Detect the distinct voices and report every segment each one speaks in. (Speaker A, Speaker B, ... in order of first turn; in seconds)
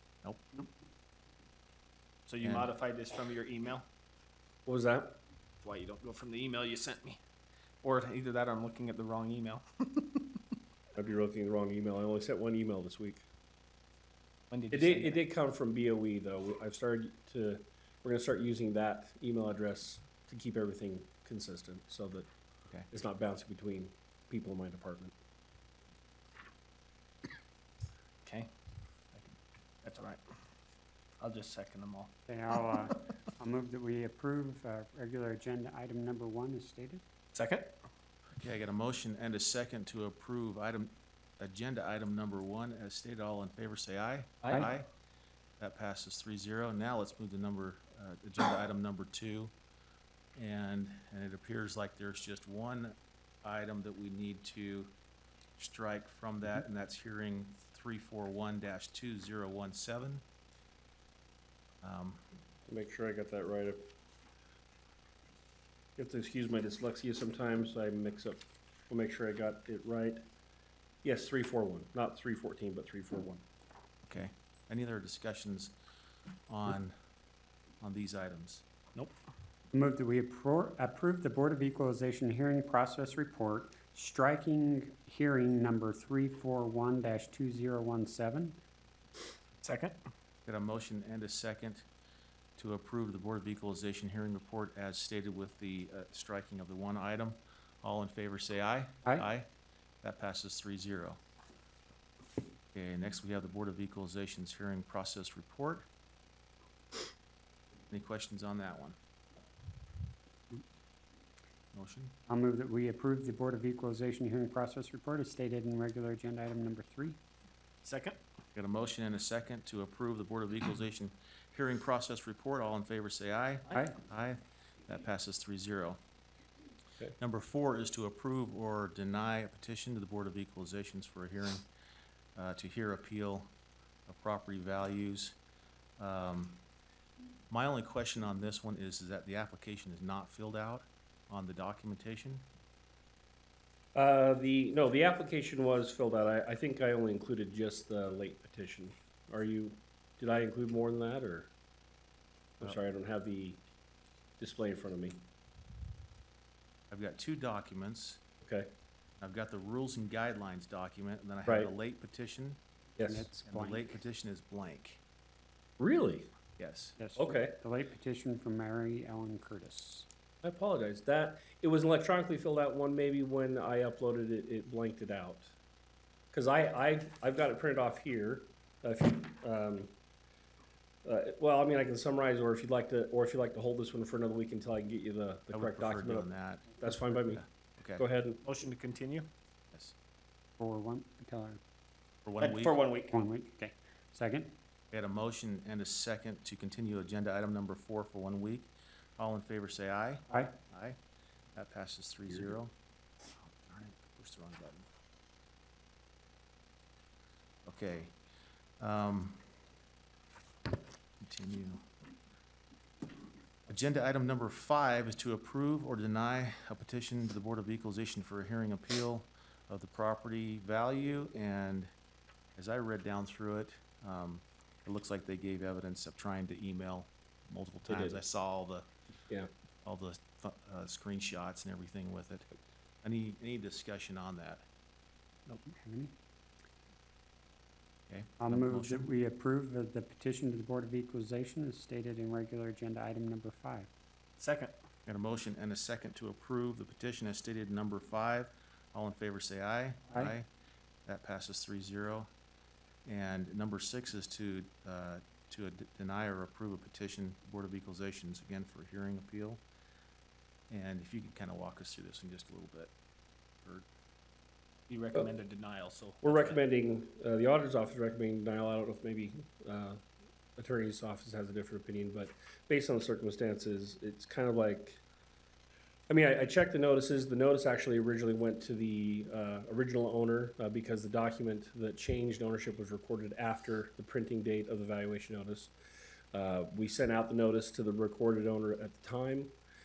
Speaker A: 0.2-0.6, 2.4-2.7, 38.3-44.9, 45.6-49.5, 50.4-54.9, 55.6-60.2, 61.8-62.2, 74.0-75.8, 76.5-77.0, 77.8-78.6, 90.5-91.8, 92.6-99.5, 100.0-101.2, 102.7-105.8, 107.9-109.0, 111.7-112.1, 118.5-126.0, 127.2-131.7, 132.3-133.5, 134.1-135.3, 136.0-136.6, 137.5-142.4, 156.9-158.2, 159.2-162.6, 163.4-165.0, 166.6-167.0, 185.5-186.8, 187.3-188.0, 192.2-192.8, 194.9-201.0, 201.5-202.7, 203.4-204.8, 207.7-208.1, 208.8-209.4, 211.2-211.8, 213.7-221.9, 222.6-228.9, 229.8-232.5, 233.0-234.6, 238.1-239.1, 245.1-250.4, 251.1-252.3, 253.1-259.6, 260.7-262.9
Speaker B: 2.3-3.9, 5.6-7.2, 7.8-10.3, 14.5-15.2, 29.8-30.2, 31.2-32.1, 37.3-37.7, 89.6-90.0, 117.8-118.2, 188.4-189.3, 192.4-193.1, 244.4-244.7, 264.9-266.6
Speaker C: 4.7-5.2, 10.9-13.2, 14.7-22.3, 22.9-25.1, 62.7-63.8, 66.0-70.2, 71.0-73.4, 143.9-151.5, 152.6-153.6, 154.4-155.2, 158.4-158.7, 161.4-161.7, 163.0-163.3, 165.8-166.3, 167.2-167.6, 170.4-175.5, 176.3-179.9, 181.0-187.4, 188.0-188.4, 227.9-228.2, 266.2-270.0, 270.6-275.0, 276.1-285.7, 286.3-289.5
Speaker D: 32.3-37.0, 79.7-88.6, 112.3-117.2, 163.0-164.0, 167.0-170.1, 190.6-191.6, 193.1-194.6, 235.7-236.1, 238.4-243.9